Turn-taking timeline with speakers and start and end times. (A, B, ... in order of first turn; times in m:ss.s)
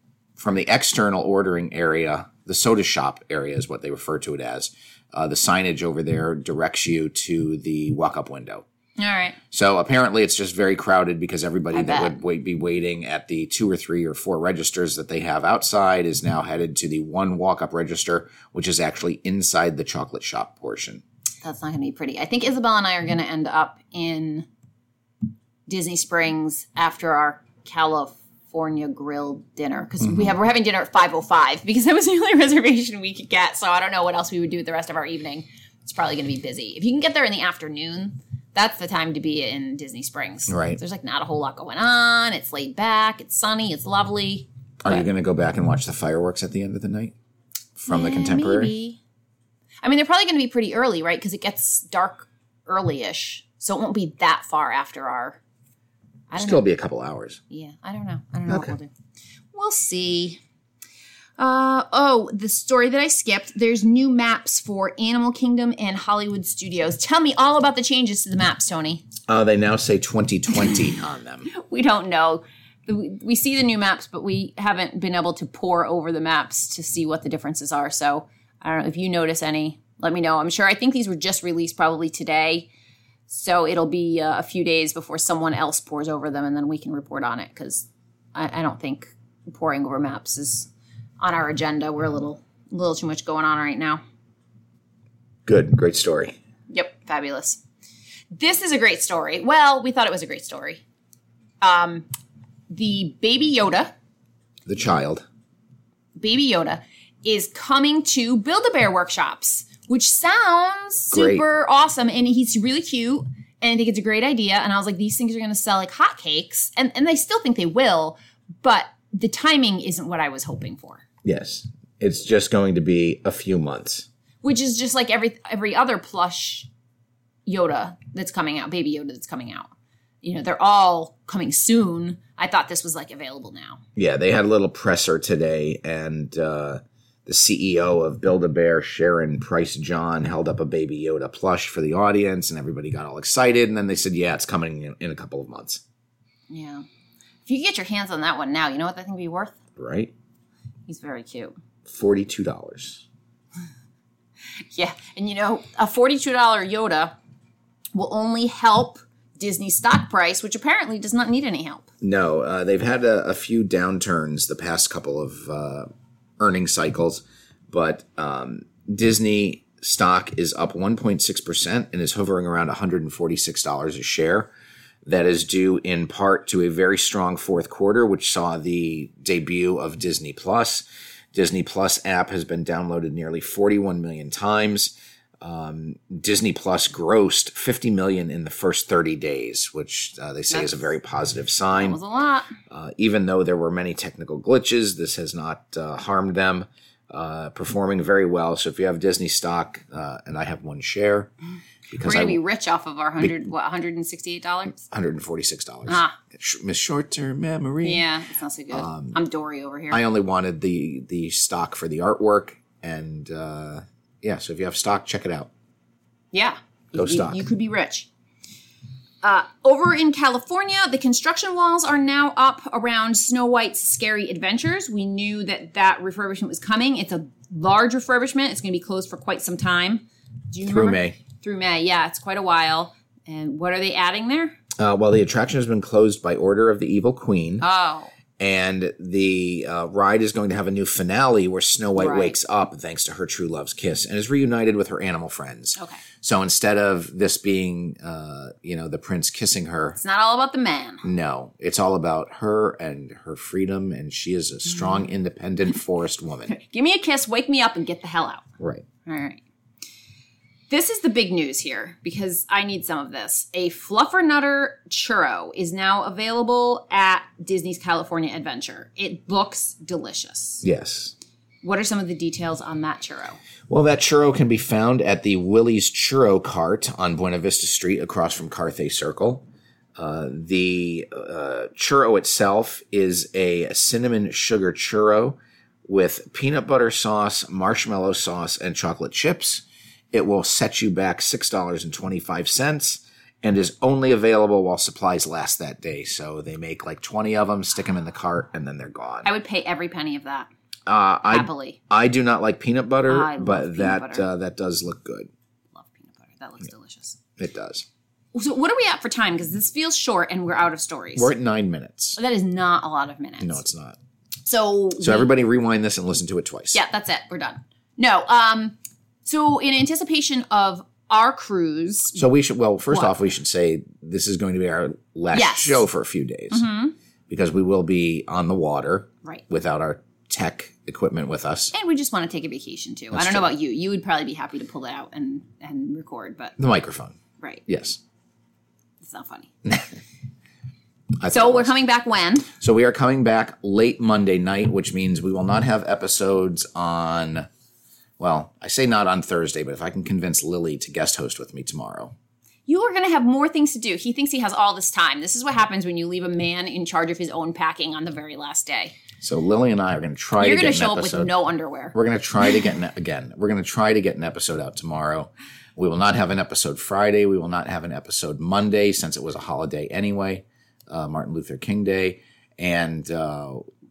0:00.4-0:08.6 A
0:09.0-0:09.4 B
0:09.5-0:21.0 A
0:11.7-0:12.2 B
0:21.4-0:24.5 B
0:25.7-0:45.1 B
0:40.5-0:40.8 A
0:44.8-0:47.1 A
0:47.8-0:48.7 A
0:47.9-0:49.0 B
0:49.8-0:55.4 B
0:56.3-0:56.7 B
0:56.4-0:57.4 A
0:57.5-0:58.9 B
0:58.5-0:58.7 A
0:59.5-1:00.4 B
1:01.4-1:09.0 B
1:09.3-1:11.5 A
1:11.5-1:22.7 B
1:23.3-1:34.0 B
1:35.5-1:36.4 A
1:36.7-1:37.6 B
1:38.3-1:40.8 B
1:41.6-1:42.1 B
1:42.7-1:43.9 B
1:44.7-1:45.2 A
1:46.2-2:01.0 B
1:51.1-1:51.4 A
2:01.2-2:04.1 A
2:04.4-2:06.7 B
2:07.5-2:09.7 B
2:10.2-2:13.8 B
2:14.0-2:25.8 A
2:26.5-2:26.8 B
2:27.5-2:29.6 B
2:29.8-2:30.1 A
2:30.9-2:31.5 B
2:31.9-2:33.0 A
2:34.7-2:37.2 B
2:38.0-2:41.9 B
2:42.0-2:45.9 A
2:46.4-2:54.5 A
2:55.0-3:12.0 A
3:10.5-3:10.9 B
3:11.7-3:12.5 B
3:12.7-3:21.3 A
3:21.9-3:22.4 A
3:22.0-3:24.8 B
3:24.9-3:28.1 A
3:25.9-3:26.2 B
3:27.8-3:30.0 B
3:28.7-3:29.2 A
3:29.9-3:35.5 A
3:36.3-3:38.1 B
3:36.9-3:37.4 A
3:39.2-3:54.6 B
3:50.6-3:51.2 A
3:54.8-3:57.6 A
3:57.6-3:58.1 B
3:58.4-4:10.0 A
4:02.0-4:02.4 B
4:05.8-4:06.0 B
4:10.0-4:11.0 B
4:11.0-4:16.6 A
4:16.5-4:18.5 B
4:18.6-4:18.8 A
4:19.1-4:19.4 B
4:20.7-4:30.6 B
4:30.6-4:31.1 A
4:31.6-4:33.4 B
4:33.7-4:39.4 A
4:40.0-4:59.3 A
4:59.2-5:00.5 B
5:00.9-5:05.3 A
5:01.3-5:01.8 B
5:03.1-5:04.3 B
5:05.8-5:07.2 B
5:07.4-5:07.9 A
5:08.4-5:11.3 B
5:11.2-5:12.2 A
5:12.2-5:13.6 B
5:13.4-5:14.0 A
5:14.4-5:15.3 B
5:15.0-5:16.8 A
5:16.7-5:22.2 B
5:22.1-5:26.7 A
5:25.3-5:25.9 B
5:26.5-5:27.0 B
5:27.3-5:31.7 A
5:31.7-5:36.6 B
5:33.1-5:33.5 A
5:36.6-5:38.0 A
5:39.0-5:39.5 B
5:41.2-5:41.8 A
5:41.3-5:42.5 B
5:42.6-5:47.5 A
5:48.2-5:52.1 A
5:52.7-5:59.0 B
5:59.2-6:01.3 A
6:00.4-6:02.0 B
6:01.9-6:13.6 A